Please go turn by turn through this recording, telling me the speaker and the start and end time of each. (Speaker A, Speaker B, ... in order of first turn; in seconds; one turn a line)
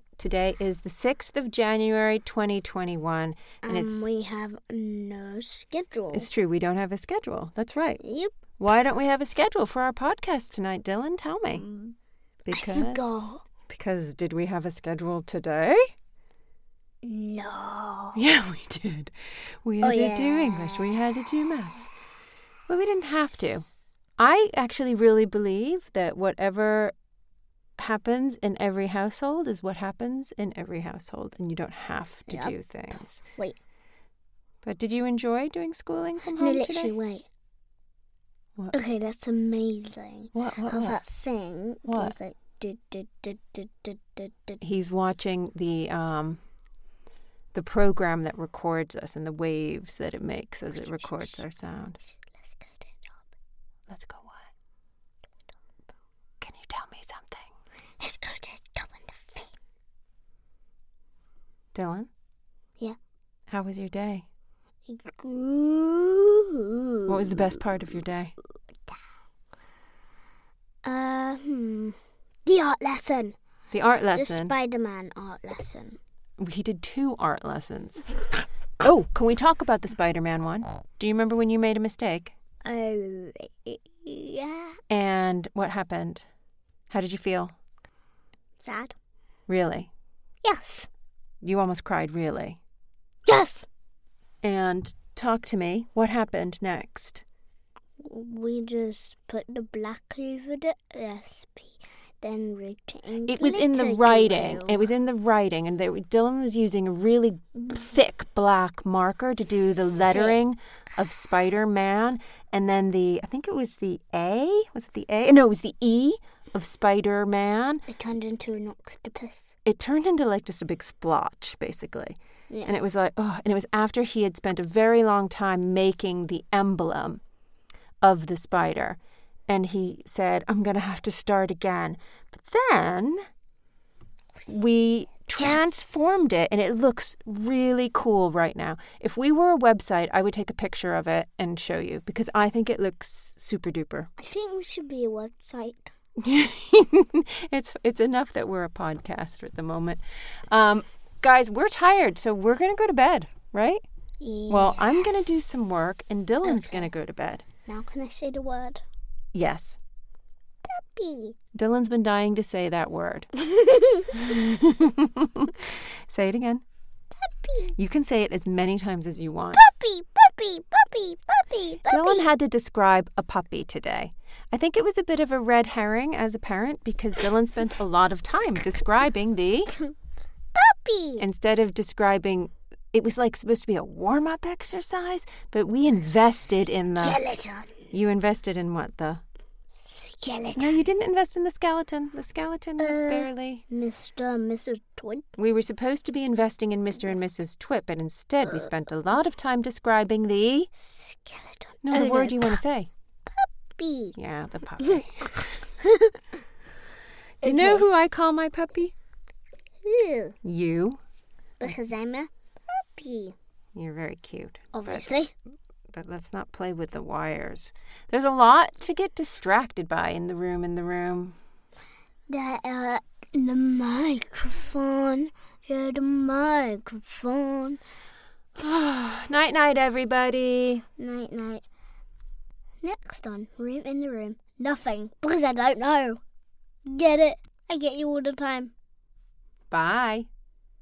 Speaker A: 0.2-4.1
Speaker B: 3.6-6.3
Speaker A: 6.1-8.0
Speaker B: 8.0-8.3
Speaker A: 8.6-11.6
Speaker B: 11.5-11.9
Speaker A: 12.4-13.0
Speaker B: 12.5-13.4
Speaker A: 13.7-15.8
Speaker B: 17.0-18.2
Speaker A: 18.1-21.9
Speaker B: 19.8-21.0
Speaker A: 22.7-23.6
Speaker A: 24.2-26.9
Speaker A: 27.8-33.2
Speaker B: 32.3-32.5
Speaker A: 34.6-36.9
Speaker B: 36.4-37.3
Speaker B: 38.7-44.6
Speaker A: 40.3-41.0
Speaker A: 41.8-42.1
Speaker A: 44.6-46.4
Speaker A: 47.5-52.0
Speaker B: 50.8-51.3
Speaker B: 52.1-53.1
Speaker A: 53.9-54.5
Speaker A: 56.4-57.5
Speaker B: 58.0-59.5
Speaker A: 61.7-62.1
Speaker A: 63.5-64.2
Speaker B: 64.9-67.5
Speaker A: 67.1-68.3
Speaker B: 70.8-73.3
Speaker A: 73.7-74.5
Speaker B: 74.1-76.0
Speaker A: 76.4-78.1
Speaker A: 78.8-82.3
Speaker B: 82.6-84.8
Speaker A: 84.9-86.2
Speaker A: 86.9-87.5
Speaker B: 88.6-88.9
Speaker A: 89.5-89.9
Speaker B: 90.4-90.9
Speaker A: 91.4-92.6
Speaker B: 93.2-93.7
Speaker A: 94.4-97.2
Speaker B: 98.0-104.9
Speaker A: 103.3-117.8
Speaker B: 110.1-110.3
Speaker B: 117.9-119.5
Speaker A: 119.6-127.2
Speaker B: 122.5-122.8
Speaker A: 128.0-133.2
Speaker A: 134.5-144.1
Speaker B: 135.4-135.7
Speaker B: 144.2-145.9
Speaker A: 146.2-153.8
Speaker B: 154.2-155.4
Speaker A: 154.5-157.4
Speaker B: 156.4-156.9
Speaker B: 157.7-158.8
Speaker A: 159.3-159.8
Speaker B: 160.7-161.3
Speaker A: 161.5-163.3
Speaker B: 163.4-164.2
Speaker A: 164.1-166.6
Speaker B: 167.2-167.7
Speaker A: 167.8-169.6
Speaker B: 169.5-172.3
Speaker A: 171.9-179.7
Speaker B: 180.5-181.2
Speaker A: 181.2-187.2
Speaker B: 187.0-187.9
Speaker A: 187.9-189.2
Speaker B: 189.7-190.8
Speaker A: 190.6-193.6
Speaker B: 192.8-195.3
Speaker A: 195.4-200.7
Speaker B: 200.7-202.6
Speaker A: 201.8-202.9
Speaker B: 203.3-204.2
Speaker A: 204.1-205.4
Speaker B: 205.8-206.2
Speaker A: 207.4-208.9
Speaker B: 207.4-207.8
Speaker B: 209.8-210.3
Speaker A: 210.4-211.0
Speaker B: 211.6-213.3
Speaker A: 213.7-215.1
Speaker B: 214.7-215.3
Speaker A: 215.9-221.4
Speaker B: 222.3-227.8
Speaker A: 228.6-230.8
Speaker B: 231.0-231.6
Speaker B: 232.8-236.2
Speaker B: 236.9-238.7
Speaker A: 239.7-240.3